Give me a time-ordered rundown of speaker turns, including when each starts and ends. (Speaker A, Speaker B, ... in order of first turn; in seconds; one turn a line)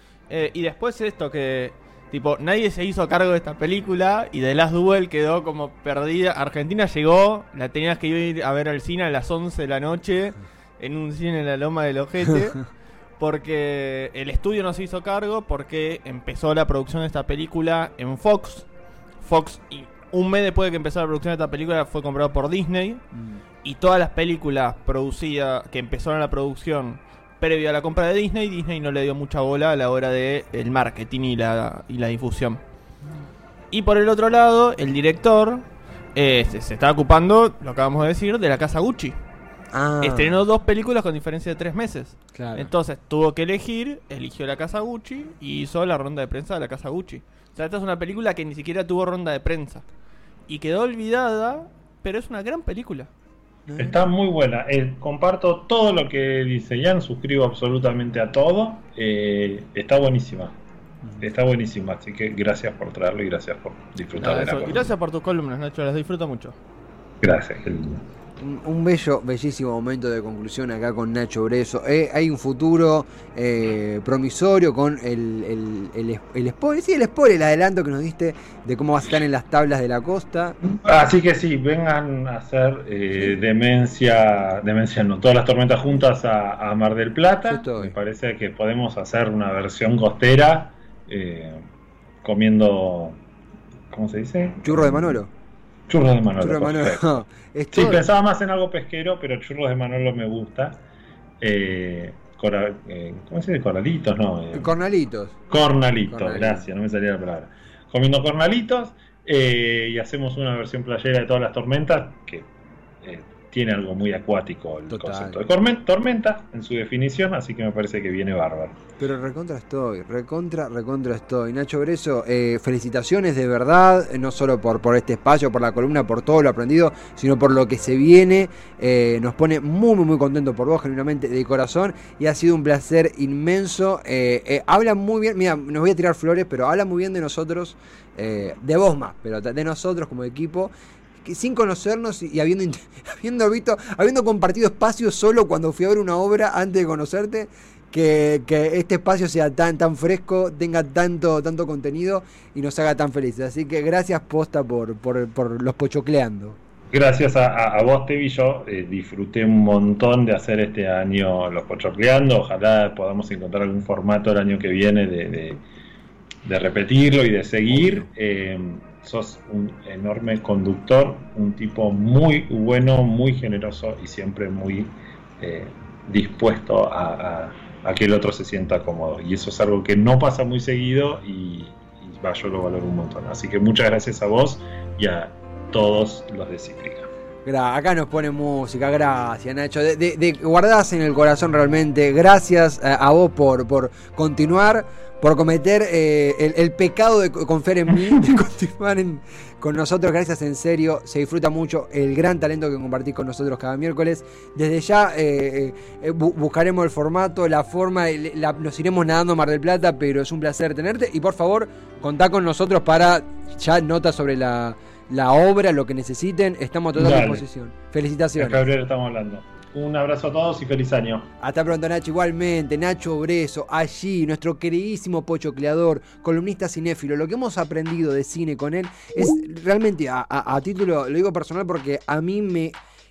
Speaker A: 0.3-18.7
Speaker A: 19.2-23.1
Speaker B: 23.1-23.4
Speaker A: 23.6-32.6
Speaker A: 33.7-39.2
Speaker B: 39.7-40.4
Speaker A: 40.0-49.8
Speaker B: 42.4-42.7
Speaker A: 50.5-53.1
Speaker B: 53.7-54.0
Speaker C: 53.8-60.5
Speaker C: 61.2-64.9
Speaker A: 64.2-66.5
Speaker C: 67.2-68.0
Speaker B: 68.4-80.6
Speaker C: 80.6-91.6
Speaker B: 87.4-87.9
Speaker C: 92.2-93.2
Speaker C: 93.9-95.2
Speaker B: 94.6-95.3
Speaker C: 95.9-100.8
Speaker B: 96.4-98.0
Speaker C: 101.4-104.7
Speaker B: 104.5-105.4
Speaker C: 105.5-112.5
Speaker B: 106.1-106.6
Speaker C: 113.0-118.7
Speaker B: 114.9-115.4
Speaker B: 119.0-140.7
Speaker B: 141.2-156.6
Speaker C: 156.9-165.6
Speaker C: 166.4-187.1
Speaker B: 167.7-168.1
Speaker B: 187.4-218.6
Speaker C: 216.9-217.4
Speaker C: 218.4-221.3
Speaker B: 221.4-232.7